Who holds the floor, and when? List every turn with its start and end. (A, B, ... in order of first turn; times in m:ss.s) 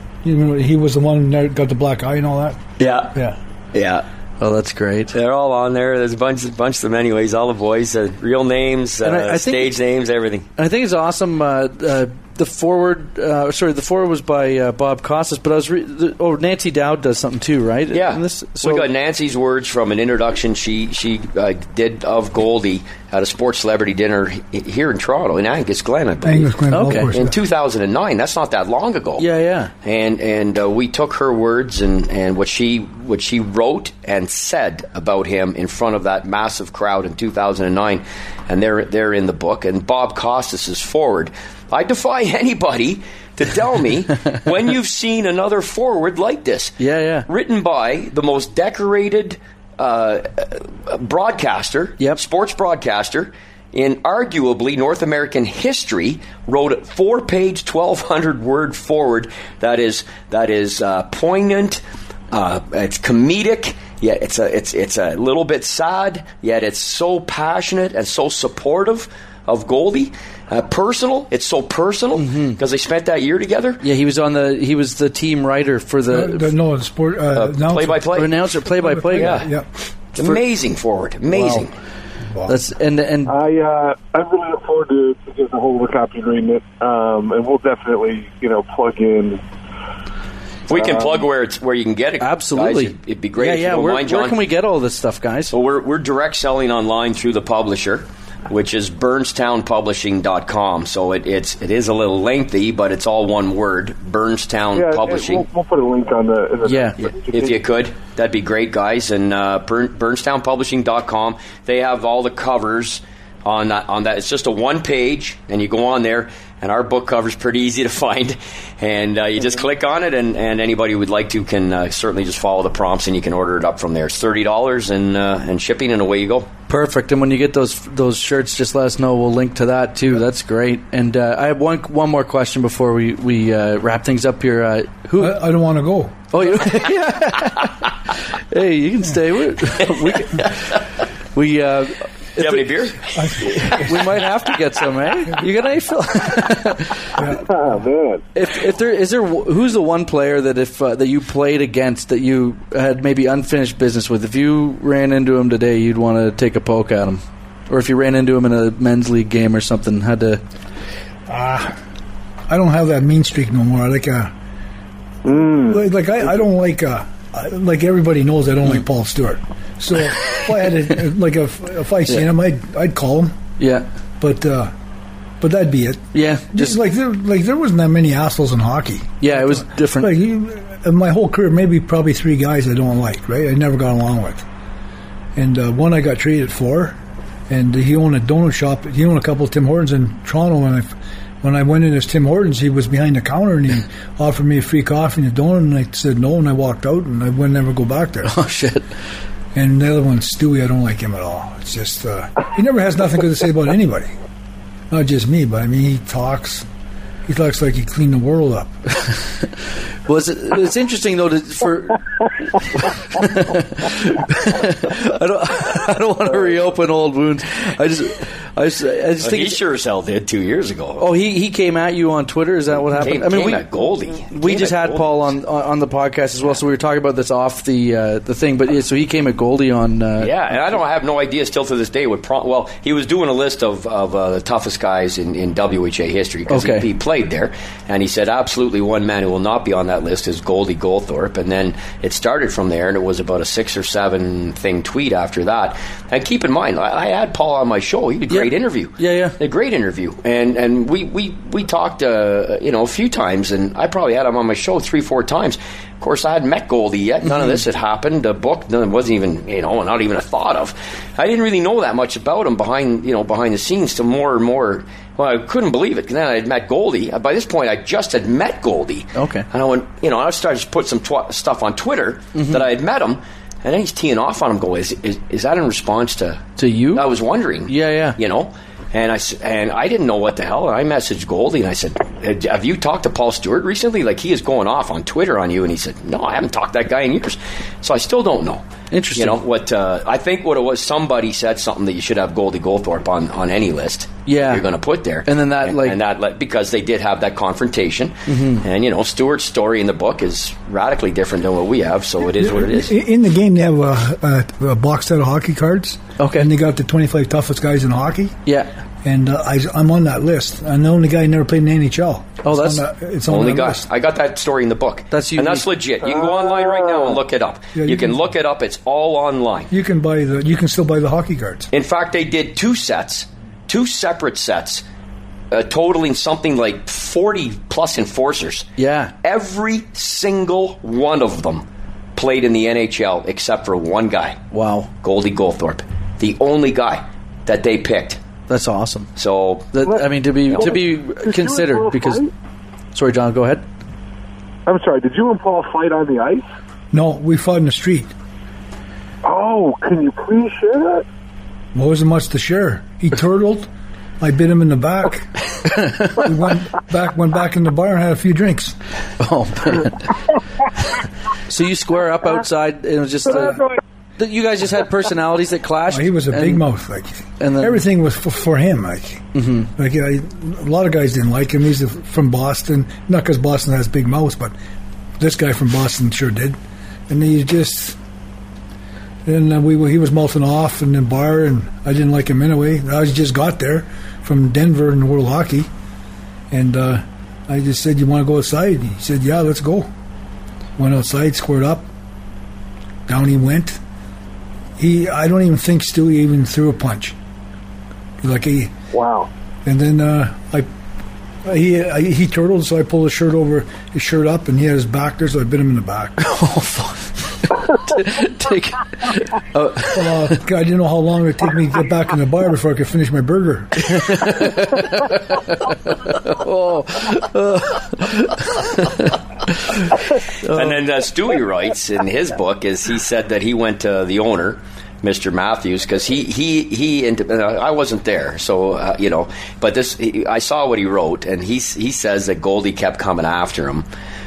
0:00.2-0:02.6 A
0:02.8-0:03.2 B
0:03.7-0:04.0 B
0:04.4-0:05.1 C
0:05.1-0:10.5 B
0:09.0-0:09.7 C
0:10.6-0:18.9 C
0:17.9-0:29.3 B
0:26.2-0:27.4 A
0:26.7-0:27.1 C
0:29.2-0:29.7 C
0:29.8-1:13.8 B
0:46.8-0:47.3 C
1:12.2-1:12.6 C
1:13.8-1:16.5 C
1:16.1-1:19.7 A
1:17.3-1:18.4 B
1:18.1-1:19.5 C
1:19.1-1:19.5 B
1:20.1-1:21.7 B
1:21.3-1:21.7 C
1:22.5-1:23.4 C
1:23.3-1:29.4 D
1:30.7-1:34.4 B
1:30.7-1:31.2 D
1:32.2-1:35.5 C
1:35.5-1:45.4 B
1:44.8-1:47.6 D
1:46.6-1:47.0 C
1:47.0-2:06.5 B
2:06.7-2:15.4 C
2:15.2-2:16.3 A
2:16.3-2:20.8 C
2:19.8-2:20.5 B
2:21.3-2:27.2 C
2:22.4-2:23.8 B
2:23.2-2:24.1 A
2:27.2-2:27.4 A
2:27.3-2:28.2 D
2:28.4-2:40.4 C
2:41.3-2:41.8 A
2:42.5-2:44.3 A
2:45.2-2:45.8 D
2:45.6-2:53.4 A
2:53.6-2:53.9 C
2:54.2-2:54.7 A
2:55.4-3:04.4 A
2:56.1-2:56.8 C
2:59.2-3:00.1 C
3:05.4-3:07.0 A
3:07.5-3:18.4 A
3:18.2-3:18.9 C
3:19.6-3:24.1 A
3:24.9-3:26.7 A
3:27.3-3:28.7 A
3:30.1-3:32.0 C
3:32.8-3:39.6 C
3:39.2-3:41.1 B
3:41.0-3:43.7 C
3:42.9-3:45.2 B
3:44.3-3:50.3 C
3:50.2-5:02.9 B
3:56.5-3:56.9 C
4:08.3-4:09.4 C
4:29.2-4:29.5 C
4:32.4-4:32.6 C
4:36.6-4:37.0 C
4:37.7-4:38.2 C
4:48.9-4:49.4 C
4:54.3-4:54.6 C
4:55.3-4:56.0 C
4:58.3-4:58.6 C
5:02.4-5:08.4 A
5:06.2-5:06.5 C
5:09.0-5:13.8 A
5:12.4-5:12.8 C
5:13.3-5:19.7 B
5:15.1-5:15.6 C
5:16.0-5:17.2 D
5:17.8-5:18.2 A
5:19.7-5:21.7 A
5:21.7-5:24.8 B
5:25.5-5:28.7 B
5:28.8-5:29.1 C
5:29.2-5:31.6 B
5:32.2-5:34.4 B
5:34.5-5:34.9 C
5:35.0-5:38.2 B
5:38.5-5:39.1 C
5:39.2-5:39.8 B
5:39.7-5:42.2 C
5:39.8-5:42.3 D
5:42.9-5:43.6 C
5:44.7-5:46.4 D
5:46.9-5:48.1 A
5:49.2-5:51.1 D
5:51.7-5:58.8 A
5:59.2-6:00.2 C
6:01.5-6:06.6 C
6:05.9-6:14.6 A
6:07.4-6:07.8 C
6:09.4-6:09.7 C
6:15.2-6:16.6 A
6:17.1-6:18.0 A
6:19.2-6:25.7 A
6:26.5-6:29.9 A
6:30.8-6:31.9 A
6:33.1-6:33.8 A
6:34.8-6:37.2 A
6:38.2-6:38.7 A
6:38.9-6:39.3 D
6:39.6-6:40.7 A
6:41.4-6:46.3 A
6:46.2-6:50.4 C
6:49.9-6:54.2 A
6:53.9-7:00.8 C
7:00.4-7:13.9 B